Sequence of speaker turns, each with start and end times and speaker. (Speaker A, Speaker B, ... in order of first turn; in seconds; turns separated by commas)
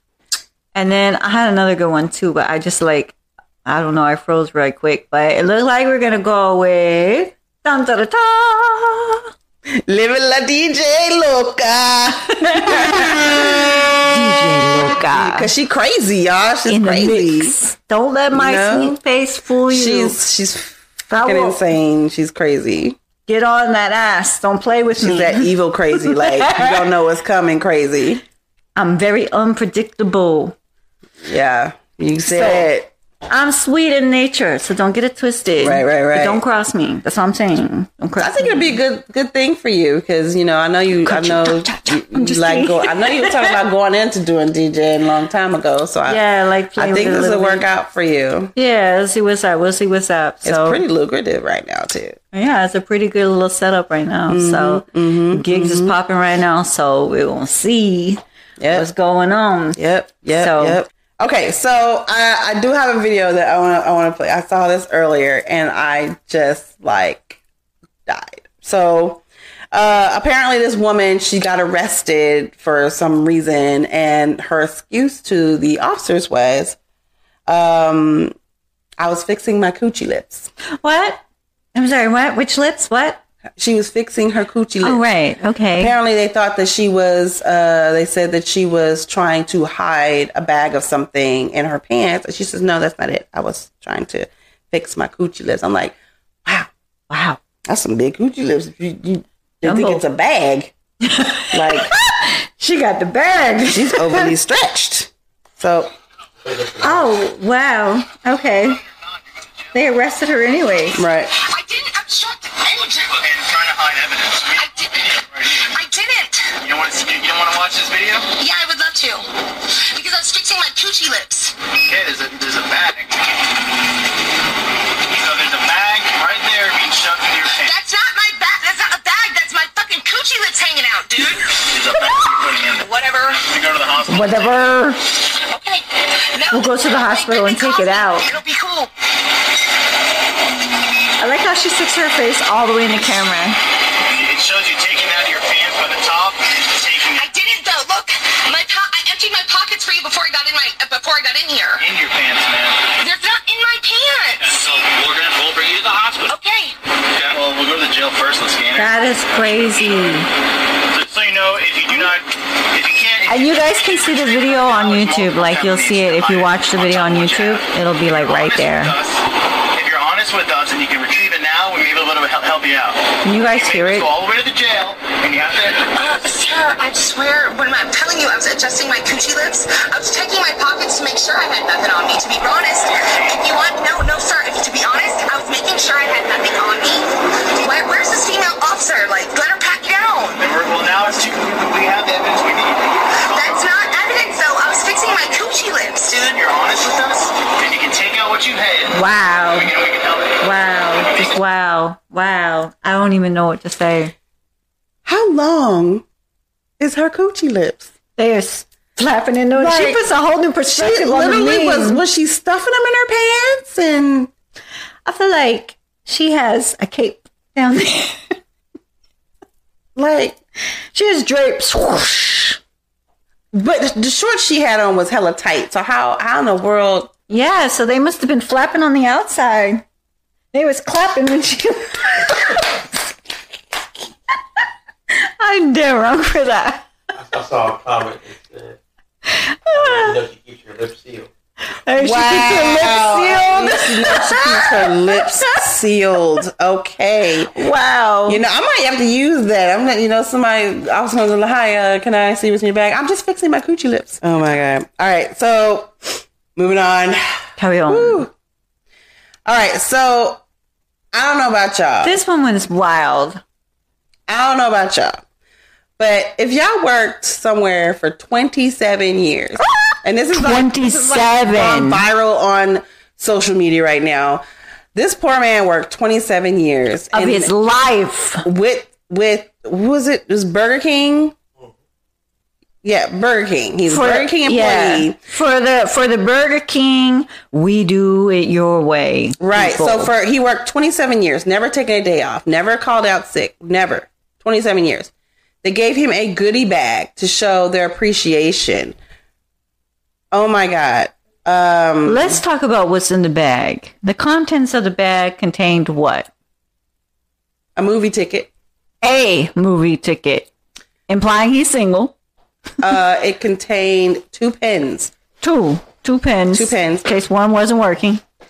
Speaker A: 0.7-9.3, Speaker B: 9.7-14.0, Speaker A: 12.4-15.5, Speaker B: 14.9-17.6, Speaker A: 16.7-20.2, Speaker B: 18.3-19.0, Speaker B: 19.7-23.0, Speaker A: 21.1-21.6, Speaker A: 23.3-26.7, Speaker B: 25.0-28.2, Speaker A: 28.8-30.6, Speaker B: 31.2-32.9, Speaker A: 32.2-32.7, Speaker A: 33.3-38.8, Speaker B: 35.6-36.4, Speaker B: 38.2-46.2, Speaker A: 41.0-43.6, Speaker A: 46.1-47.6, Speaker B: 46.8-48.5, Speaker A: 48.6-50.8, Speaker B: 50.4-52.2, Speaker A: 52.3-59.8, Speaker B: 54.3-55.9, Speaker B: 58.6-58.9, Speaker B: 59.8-67.4, Speaker A: 60.4-60.8, Speaker B: 68.1-76.8, Speaker B: 77.5-78.3, Speaker B: 79.0-80.5, Speaker A: 80.8-81.2, Speaker A: 81.8-83.2, Speaker B: 83.6-85.0, Speaker A: 84.8-85.9, Speaker B: 85.8-96.7, Speaker A: 97.1-97.4, Speaker B: 97.7-100.7, Speaker A: 99.6-100.0, Speaker A: 101.0-104.3, Speaker B: 101.5-101.9, Speaker B: 103.7-105.9, Speaker C: 106.4-107.1, Speaker A: 106.8-108.8, Speaker A: 109.7-111.0, Speaker B: 111.0-111.3, Speaker D: 111.4-113.2, Speaker E: 113.2-115.8, Speaker D: 114.6-115.1, Speaker D: 115.7-116.5, Speaker E: 116.6-118.3, Speaker D: 118.4-121.6, Speaker E: 121.9-123.3, Speaker E: 125.1-127.8, Speaker D: 127.7-132.2, Speaker E: 131.6-134.6, Speaker D: 132.8-133.4, Speaker A: 134.1-135.0, Speaker D: 135.5-138.9, Speaker A: 136.5-138.3, Speaker A: 141.2-143.6, Speaker E: 144.1-147.2, Speaker D: 147.2-151.8, Speaker E: 151.8-152.9, Speaker D: 153.0-154.6, Speaker E: 154.4-156.3, Speaker D: 156.3-156.8, Speaker E: 157.1-160.2, Speaker A: 158.8-160.3, Speaker E: 160.9-175.8, Speaker A: 163.3-168.9, Speaker A: 173.2-174.1, Speaker D: 175.9-190.4, Speaker E: 190.4-193.7, Speaker D: 193.3-196.1, Speaker E: 196.1-199.0, Speaker A: 198.9-199.7, Speaker E: 199.5-200.4, Speaker A: 200.4-204.1, Speaker B: 205.1-206.1, Speaker B: 206.8-207.9, Speaker A: 208.2-212.0, Speaker B: 209.6-210.0, Speaker B: 210.7-214.3, Speaker A: 215.1-218.4, Speaker B: 220.0-220.4, Speaker A: 220.9-222.6, Speaker B: 223.5-227.1, Speaker A: 227.3-229.8, Speaker A: 230.5-232.8, Speaker A: 235.2-236.9, Speaker C: 237.2-238.8, Speaker A: 239.3-240.2, Speaker C: 239.7-241.3, Speaker A: 241.7-245.6, Speaker B: 242.0-247.5, Speaker A: 247.5-248.4, Speaker B: 248.3-258.3, Speaker A: 257.6-258.3, Speaker B: 259.5-260.4, Speaker B: 261.1-262.2, Speaker A: 262.0-263.4, Speaker B: 264.3-265.2, Speaker B: 266.0-274.4, Speaker A: 270.3-272.0, Speaker B: 274.9-277.5, Speaker A: 277.1-278.4, Speaker B: 278.4-281.4, Speaker B: 282.8-285.2, Speaker A: 283.9-290.1, Speaker B: 289.4-295.1, Speaker B: 295.6-299.0, Speaker B: 300.3-302.4, Speaker A: 302.1-306.3, Speaker B: 307.8-308.5, Speaker A: 309.0-310.5, Speaker A: 311.1-312.1, Speaker B: 312.8-315.1, Speaker A: 315.4-318.2, Speaker B: 316.5-317.1